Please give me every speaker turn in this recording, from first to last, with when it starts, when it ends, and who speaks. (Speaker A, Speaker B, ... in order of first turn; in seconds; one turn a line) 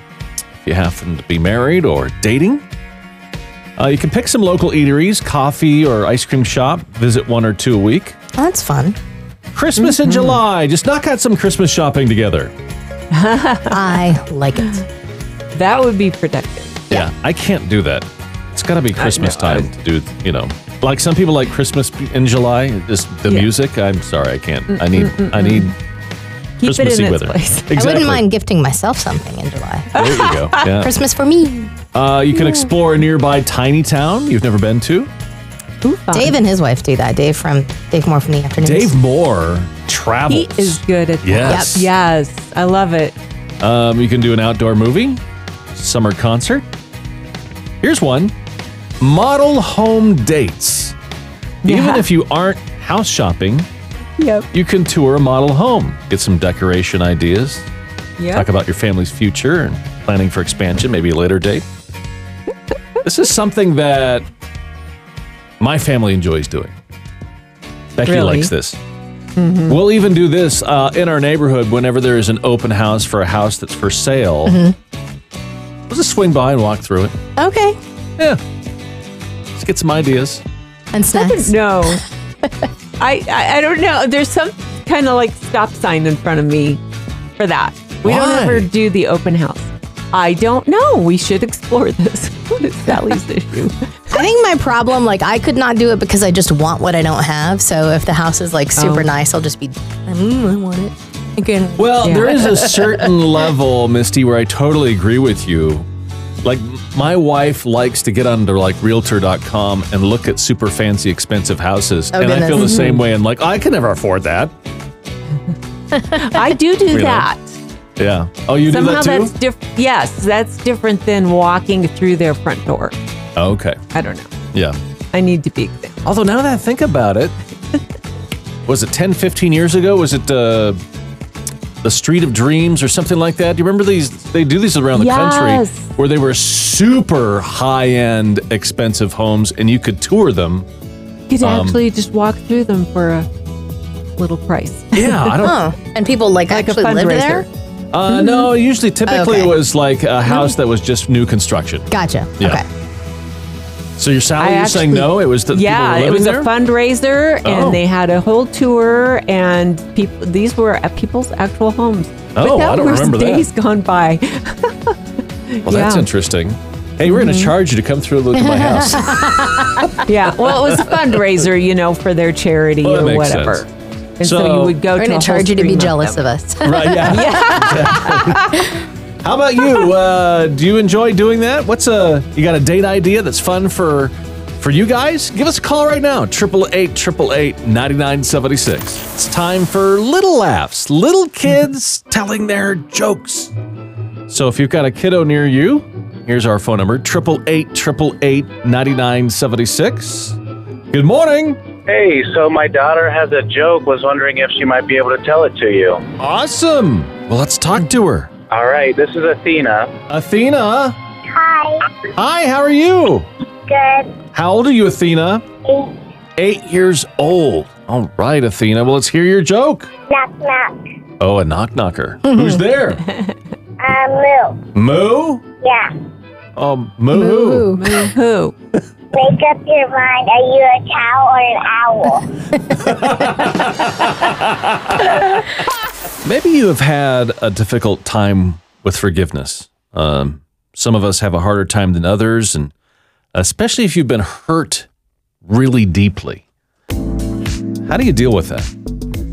Speaker A: 0.6-2.6
Speaker A: 3.8-8.2
Speaker B: 8.4-9.0
Speaker A: 9.5-12.5
Speaker C: 9.8-10.4
Speaker C: 13.1-13.8
Speaker B: 13.7-14.8
Speaker C: 15.5-16.9
Speaker A: 16.9-25.7
Speaker C: 18.9-19.7
Speaker C: 23.3-23.6
Speaker C: 24.8-25.7
Speaker C: 26.6-27.8
Speaker A: 26.6-28.2
Speaker B: 27.7-30.0
Speaker A: 29.9-30.9
Speaker C: 30.0-30.6
Speaker B: 30.7-31.7
Speaker A: 31.9-35.1
Speaker C: 32.3-32.7
Speaker C: 35.8-36.4
Speaker B: 36.1-39.0
Speaker A: 38.6-41.9
Speaker C: 40.3-43.1
Speaker B: 41.4-41.8
Speaker A: 43.6-45.2
Speaker A: 45.7-46.6
Speaker A: 47.8-48.3
Speaker A: 49.0-50.9
Speaker C: 51.6-52.1
Speaker A: 51.6-53.7
Speaker C: 54.2-54.5
Speaker A: 54.5-57.7
Speaker C: 58.2-58.5
Speaker A: 58.3-61.6
Speaker A: 63.0-64.2
Speaker A: 65.6-66.7
Speaker A: 68.0-68.8
Speaker C: 68.0-68.5
Speaker C: 69.4-69.8
Speaker A: 69.7-74.6
Speaker B: 74.4-74.7
Speaker A: 75.9-77.2
Speaker B: 77.4-77.8
Speaker A: 79.5-80.4
Speaker B: 80.9-82.5
Speaker C: 81.1-82.0
Speaker C: 83.0-86.8
Speaker C: 87.4-93.7
Speaker A: 88.0-88.7
Speaker B: 94.1-103.2
Speaker C: 98.8-99.1
Speaker A: 101.8-105.8
Speaker A: 106.4-114.5
Speaker B: 112.1-112.8
Speaker C: 112.6-113.0
Speaker C: 116.1-117.6
Speaker A: 116.9-117.3
Speaker A: 118.0-119.3
Speaker C: 118.7-123.0
Speaker A: 123.4-123.8
Speaker C: 123.9-124.3
Speaker C: 125.1-125.9
Speaker A: 126.0-127.3
Speaker A: 128.7-130.8
Speaker A: 131.8-140.7
Speaker C: 134.9-135.9
Speaker C: 141.3-143.3
Speaker A: 141.4-141.8
Speaker C: 144.2-145.4
Speaker A: 144.9-145.7
Speaker B: 145.4-147.5
Speaker C: 146.5-147.4
Speaker A: 147.9-152.6
Speaker B: 149.1-149.6
Speaker C: 150.2-150.5
Speaker B: 151.9-152.6
Speaker A: 154.0-156.5
Speaker C: 154.4-164.9
Speaker A: 157.4-157.8
Speaker A: 162.3-163.5
Speaker C: 165.5-166.1
Speaker A: 165.6-170.1
Speaker C: 167.1-167.5
Speaker B: 168.3-170.0
Speaker C: 170.1-173.7
Speaker A: 172.8-173.7
Speaker C: 174.2-176.2
Speaker A: 174.2-174.8
Speaker B: 174.9-178.8
Speaker A: 176.6-178.4
Speaker C: 177.1-178.3
Speaker A: 179.2-193.5
Speaker A: 194.3-200.4
Speaker A: 200.9-201.6
Speaker D: 201.9-206.0
Speaker A: 206.2-208.3
Speaker D: 208.5-209.9
Speaker A: 210.1-210.9
Speaker E: 211.3-211.8
Speaker A: 212.2-213.3
Speaker E: 213.7-214.1
Speaker A: 214.3-215.5
Speaker A: 216.4-219.9
Speaker E: 220.1-220.7
Speaker A: 221.2-223.1
Speaker B: 222.2-222.6
Speaker E: 223.8-224.6
Speaker A: 224.7-225.4
Speaker A: 226.6-227.8
Speaker B: 227.1-228.0
Speaker C: 227.7-228.5
Speaker E: 229.2-232.1
Speaker A: 232.8-235.0
Speaker A: 236.2-242.7
Speaker A: 243.3-244.9
Speaker A: 245.4-246.4
Speaker A: 247.8-248.7